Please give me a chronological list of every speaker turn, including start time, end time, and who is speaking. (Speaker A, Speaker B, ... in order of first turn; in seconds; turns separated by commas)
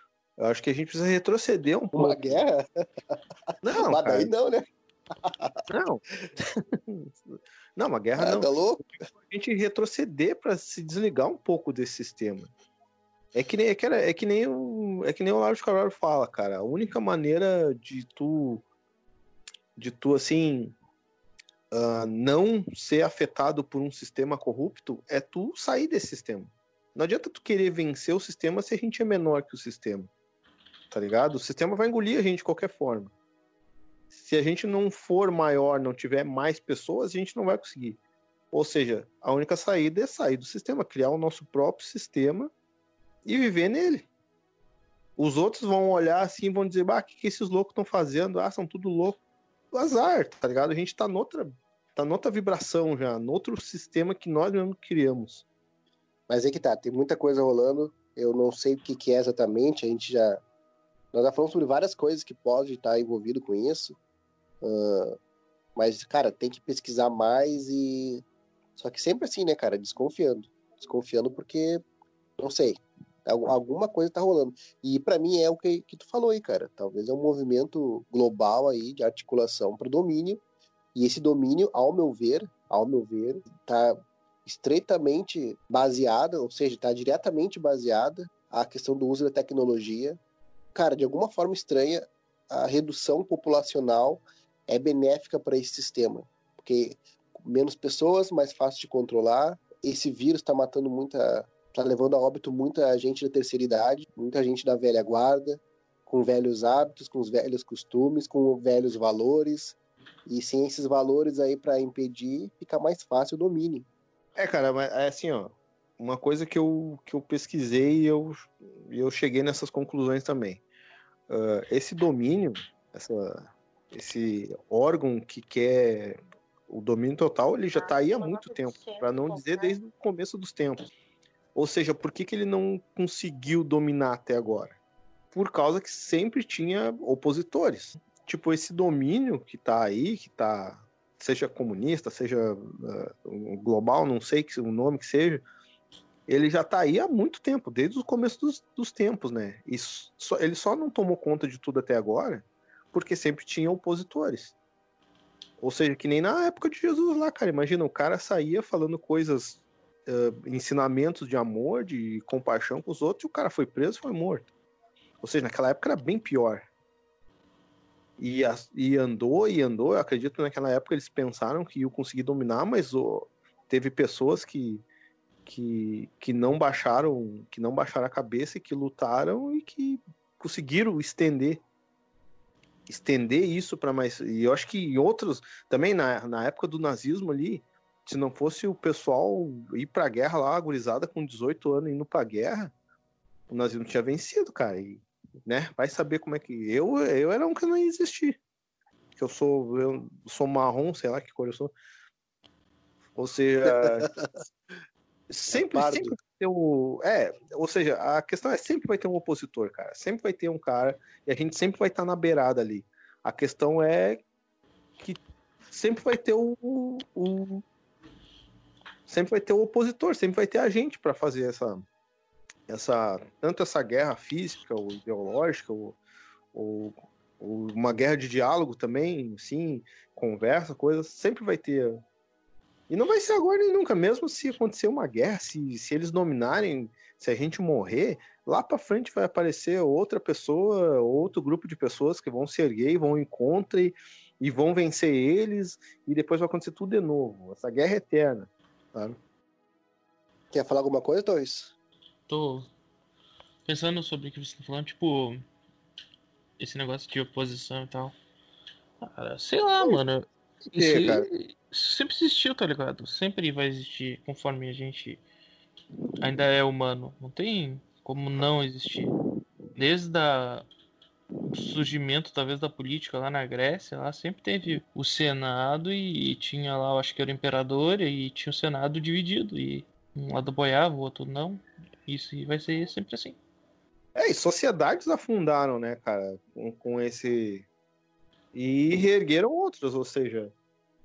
Speaker A: 0.4-2.4, Speaker B: 1.9-3.1, Speaker A: 3.6-4.3, Speaker B: 3.8-4.6, Speaker B: 5.2-6.3, Speaker A: 5.7-8.5, Speaker B: 8.2-9.0, Speaker A: 9.2-12.5, Speaker A: 13.3-18.6, Speaker A: 19.8-20.7, Speaker A: 21.7-30.1, Speaker A: 30.9-33.1, Speaker A: 34.1-38.0, Speaker A: 38.5-42.5, Speaker A: 43.2-44.1, Speaker A: 45.2-49.2, Speaker A: 49.7-55.4, Speaker B: 56.3-60.4, Speaker B: 61.1-64.0, Speaker B: 64.6-65.2, Speaker B: 65.8-68.2, Speaker B: 68.8-71.8, Speaker B: 72.4-80.4, Speaker B: 80.9-90.2, Speaker B: 90.7-113.9, Speaker A: 114.3-120.6, Speaker A: 121.3-130.8, Speaker A: 131.5-134.8, Speaker A: 135.3-145.4, Speaker A: 146.3-154.5, Speaker A: 155.6-164.5, Speaker A: 165.2-166.7, Speaker A: 168.2-174.8, Speaker A: 175.4-181.6, Speaker A: 182.9-192.7, Speaker A: 193.5-198.4, Speaker A: 199.2-201.7, Speaker A: 203.2-204.1, Speaker B: 203.7-204.4, Speaker A: 205.3-214.2, Speaker B: 205.5-206.1, Speaker A: 215.0-217.6, Speaker A: 219.1-221.8, Speaker A: 222.7-226.0, Speaker A: 226.5-232.0, Speaker A: 232.9-248.5, Speaker B: 250.5-251.7, Speaker C: 252.3-252.7, Speaker C: 253.7-255.4, Speaker C: 256.6-258.1, Speaker C: 259.0-265.2, Speaker A: 260.7-261.3, Speaker C: 266.2-269.1, Speaker C: 269.8-270.7, Speaker C: 271.5-283.4, Speaker A: 284.1-287.6, Speaker A: 288.5-290.5